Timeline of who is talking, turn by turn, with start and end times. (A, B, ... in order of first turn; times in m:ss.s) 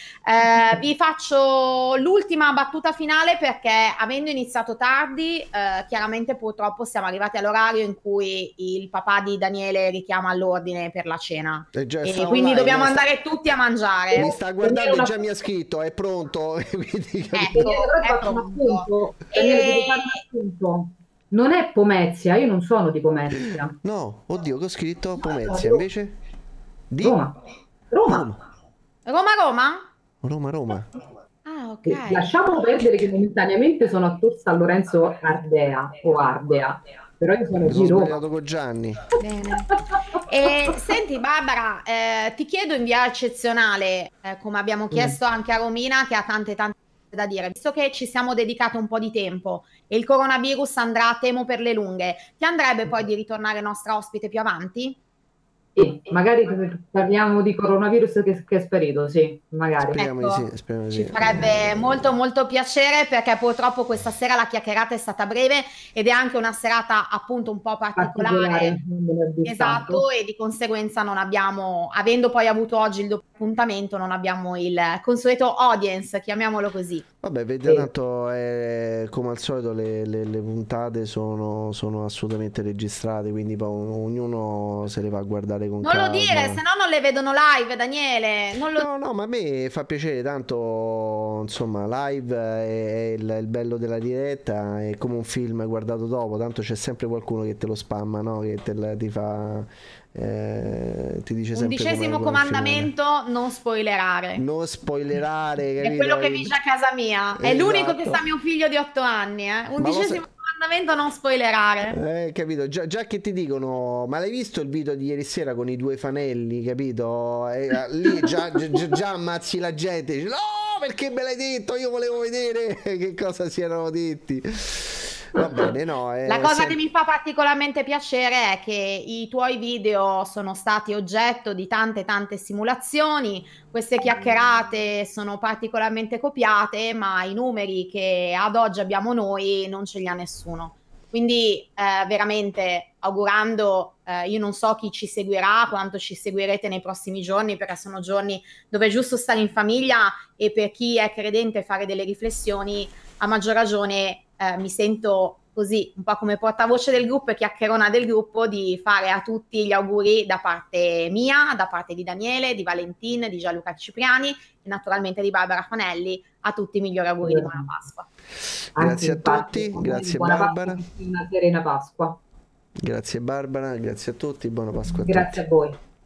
0:00.2-0:14.3 A
0:11.7-0:13.1 B
0:14.1-0:15.2 C
0:14.1-0:17.6 B
0:17.3-0:20.2 A
0:17.5-0:23.7 C
0:23.8-0:26.2 B
0:25.4-0:25.8 C
0:26.9-0:27.2 B
0:27.0-0:27.3 C
0:27.9-0:28.3 C
0:28.0-0:28.4 B
0:29.0-0:29.9 A
0:30.2-0:30.9 B
0:31.4-0:32.3 A
0:31.8-0:38.2 C
0:37.6-0:39.1 B
0:39.2-0:55.0 A
0:44.9-0:45.2 C
0:55.7-1:00.0 C
0:59.8-1:02.1 B
1:00.0-1:08.8 A
1:08.0-1:10.0 C
1:09.4-1:17.0 A
1:17.2-1:26.6 B
1:25.8-1:28.9 A
1:28.8-1:42.9 B
1:41.6-1:44.4 A
1:44.4-1:46.5 B
1:45.8-1:52.0 A
1:47.4-1:48.2 B
1:49.8-1:50.2 B
1:51.9-2:06.8 B
2:06.3-2:48.1 A
2:47.2-2:47.6 C
2:48.8-2:50.8 B
2:48.8-2:52.2 C
2:52.8-2:55.4 B
2:54.9-2:55.8 C